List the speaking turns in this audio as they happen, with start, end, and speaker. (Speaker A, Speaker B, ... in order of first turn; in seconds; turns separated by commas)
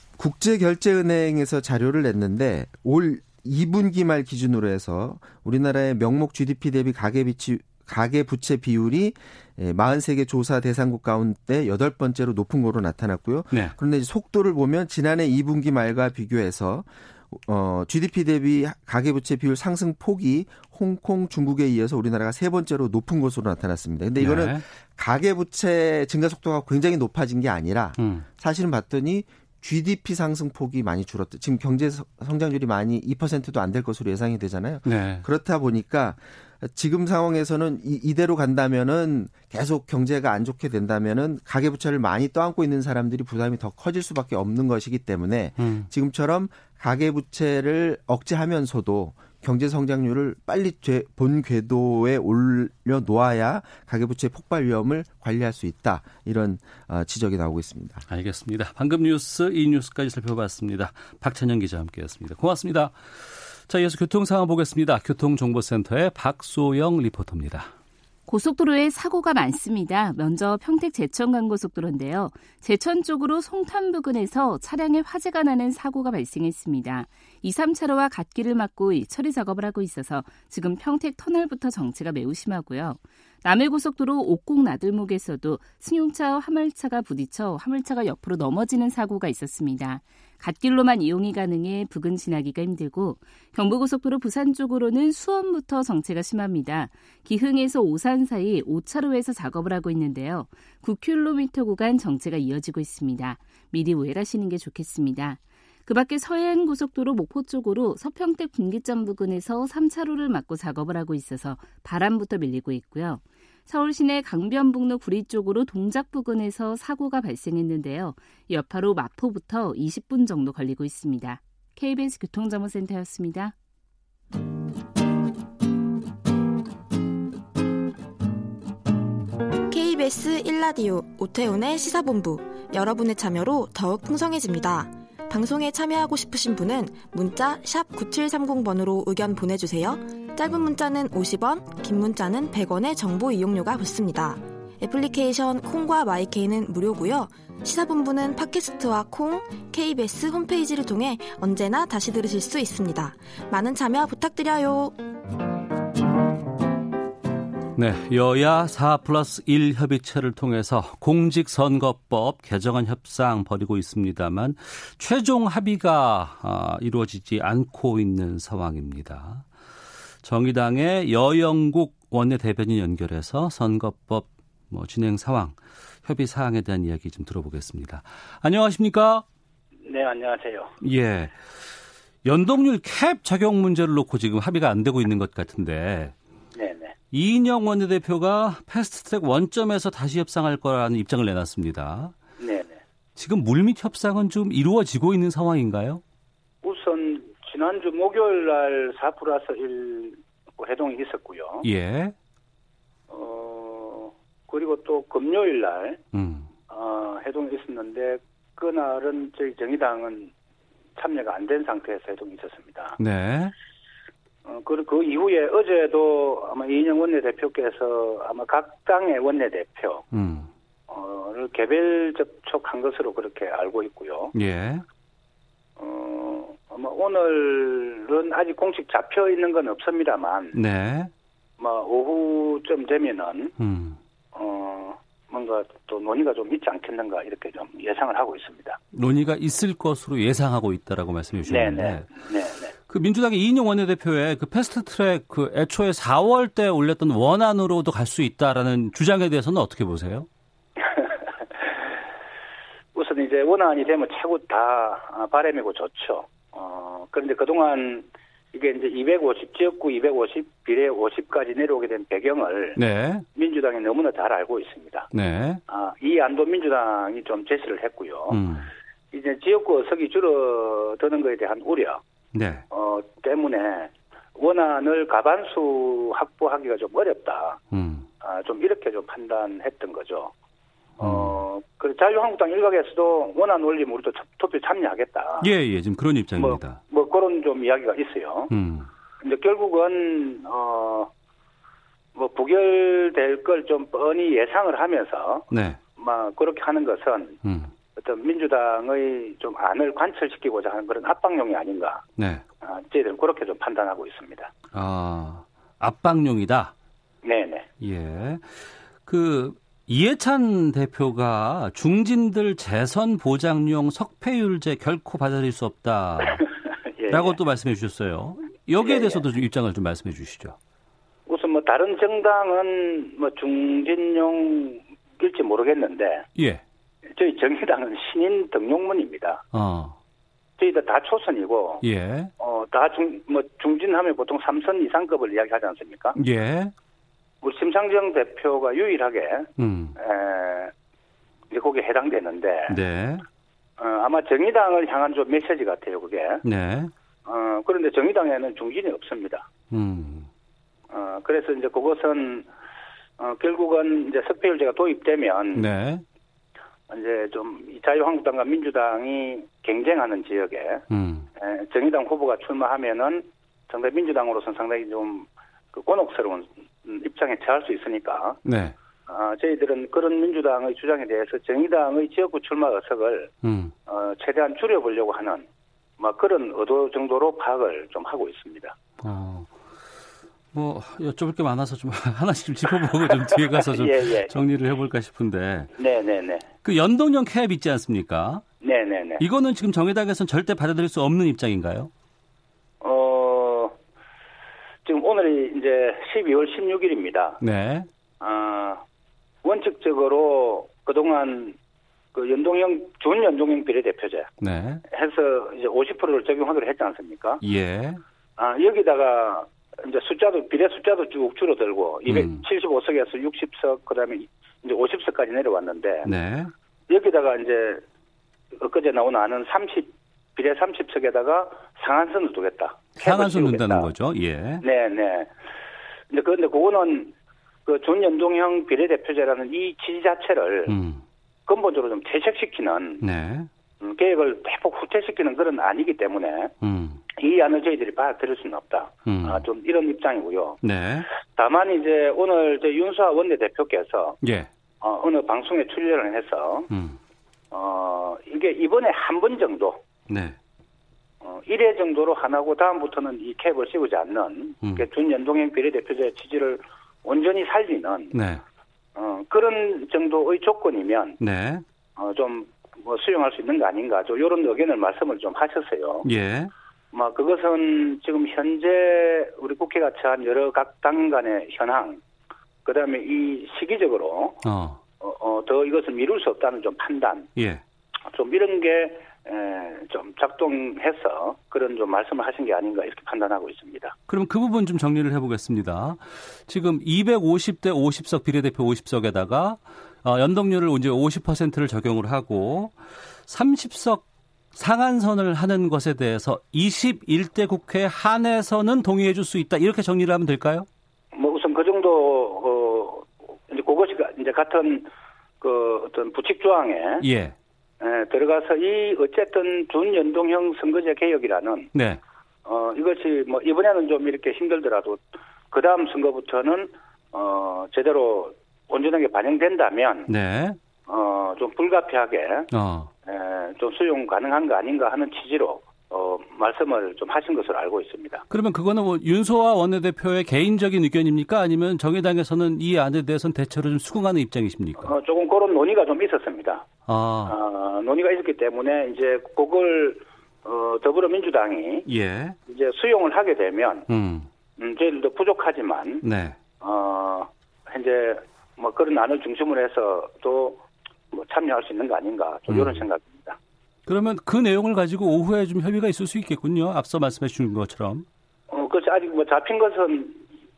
Speaker A: 0.2-58.0, Speaker B: 24.2-24.6, Speaker B: 28.0-28.3, Speaker B: 34.9-35.3, Speaker B: 45.6-45.9, Speaker B: 58.1-67.7, Speaker C: 68.3-123.5, Speaker D: 129.7-155.0, Speaker B: 157.8-169.5, Speaker B: 170.2-179.2, Speaker E: 179.8-180.7, Speaker B: 180.8-181.7, Speaker B: 182.2-186.2, Speaker E: 186.6-186.9, Speaker B: 187.1-192.1, Speaker E: 192.4-192.8, Speaker B: 193.2-196.0, Speaker E: 196.6-201.7, Speaker B: 201.6-202.1, Speaker E: 203.1-206.0, Speaker B: 206.1-206.5, Speaker E: 206.7-210.3, Speaker E: 211.0-213.0, Speaker B: 213.0-213.5, Speaker E: 214.4-220.0, Speaker B: 220.1-220.5, Speaker E: 220.9-224.3, Speaker B: 224.3-224.8, Speaker E: 225.8-230.6, Speaker B: 230.5-231.1, Speaker E: 231.6-233.5, Speaker B: 233.6-234.0, Speaker E: 234.3-238.8, Speaker B: 238.9-242.1, Speaker E: 241.5-242.7, Speaker B: 242.9-250.3, Speaker E: 250.8-251.2, Speaker E: 252.9-262.8, Speaker B: 262.8-263.2, Speaker E: 263.4-265.1, Speaker B: 265.1-265.6, Speaker E: 265.7-268.4, Speaker B: 268.3-268.7, Speaker E: 269.1-272.0, Speaker B: 272.3-272.6, Speaker E: 272.7-277.6, Speaker B: 277.7-278.1, Speaker E: 278.2-280.3, Speaker B: 281.0-281.4, Speaker E: 281.0-285.5, Speaker B: 285.4-286.8, Speaker E: 286.4-288.5, Speaker B: 288.5-288.9, Speaker E: 289.2-291.1, Speaker E: 292.1-297.4, Speaker B: 295.5-295.8, Speaker B: 297.4-297.7, Speaker E: 298.0-302.0, Speaker B: 302.2-302.4, Speaker E: 302.6-304.5, Speaker B: 304.7-306.7, Speaker E: 307.2-307.7, Speaker B: 307.8-316.5, Speaker E: 316.9-317.4, Speaker B: 317.1-320.6, Speaker E: 318.8-319.2, Speaker E: 321.3-326.3, Speaker B: 326.4-326.6, Speaker E: 327.1-329.4, Speaker B: 329.5-330.0, Speaker E: 330.6-331.8, Speaker B: 331.8-332.3, Speaker E: 332.4-336.2, Speaker B: 336.2-336.7, Speaker E: 337.4-340.7, Speaker B: 339.6-340.0, Speaker E: 341.5-342.8, Speaker B: 342.7-343.2, Speaker E: 343.8-346.4, Speaker B: 346.4-346.9, Speaker E: 347.3-349.5, Speaker B: 349.7-350.3, Speaker E: 350.9-352.5, Speaker E: 353.2-355.7, Speaker B: 355.5-356.0, Speaker E: 356.9-360.8, Speaker B: 360.9-361.3, Speaker E: 361.4-368.4, Speaker B: 368.4-368.8, Speaker E: 369.1-373.3, Speaker B: 373.4-373.7, Speaker E: 373.9-375.5, Speaker E: 376.0-378.8, Speaker B: 379.0-379.6, Speaker B: 380.5-385.7, Speaker E: 383.3-384.3, Speaker E: 385.8-386.5, Speaker B: 386.6-388.4, Speaker E: 388.6-389.2, Speaker B: 389.2-391.9, Speaker E: 392.8-393.8, Speaker E: 394.9-397.4, Speaker B: 397.4-397.9, Speaker E: 398.2-398.8, Speaker E: 399.4-401.6, Speaker E: 402.1-404.3, Speaker B: 404.4-404.8, Speaker E: 404.9-407.4, Speaker B: 407.4-408.0, Speaker E: 408.4-416.1, Speaker B: 412.1-412.4, Speaker B: 416.0-416.5, Speaker E: 416.9-417.8, Speaker E: 418.6-423.9, Speaker B: 423.0-424.6, Speaker E: 424.6-425.3, Speaker E: 426.1-427.1, Speaker E: 427.7-430.8, Speaker B: 430.7-431.0, Speaker E: 431.5-433.0, Speaker B: 433.0-433.5, Speaker E: 433.8-436.5, Speaker B: 436.6-437.0, Speaker E: 437.2-440.6, Speaker B: 439.1-439.4, Speaker B: 440.6-441.1, Speaker E: 441.3-444.2, Speaker B: 444.2-444.5, Speaker E: 444.8-446.7, Speaker B: 446.7-447.0, Speaker E: 447.5-449.8, Speaker B: 450.1-450.4, Speaker E: 451.2-458.2, Speaker B: 458.1-458.4, Speaker E: 459.0-461.2, Speaker B: 461.2-461.6, Speaker E: 462.0-466.1, Speaker B: 466.0-466.5, Speaker E: 466.9-472.0, Speaker E: 472.6-474.4, Speaker B: 474.4-474.8, Speaker E: 475.0-477.3, Speaker B: 477.4-477.6, Speaker E: 478.1-483.9, Speaker B: 484.1-492.8, Speaker B: 493.3-500.7, Speaker E: 501.1-504.9, Speaker E: 505.4-507.1, Speaker B: 507.0-507.4, Speaker E: 507.8-511.7, Speaker B: 511.7-512.0, Speaker E: 512.5-520.1, Speaker B: 520.1-520.6, Speaker E: 520.9-522.5, Speaker B: 522.5-522.9, Speaker E: 523.1-528.2, Speaker B: 528.3-534.9, Speaker E: 534.8-536.7, Speaker B: 536.9-537.4, Speaker E: 537.3-541.9, Speaker B: 541.9-542.4, Speaker E: 542.5-543.9, Speaker B: 543.9-544.3, Speaker E: 544.6-546.0, Speaker B: 546.0-546.4, Speaker E: 546.6-553.4, Speaker B: 552.5-552.8, Speaker B: 553.9-558.1, Speaker E: 558.5-560.2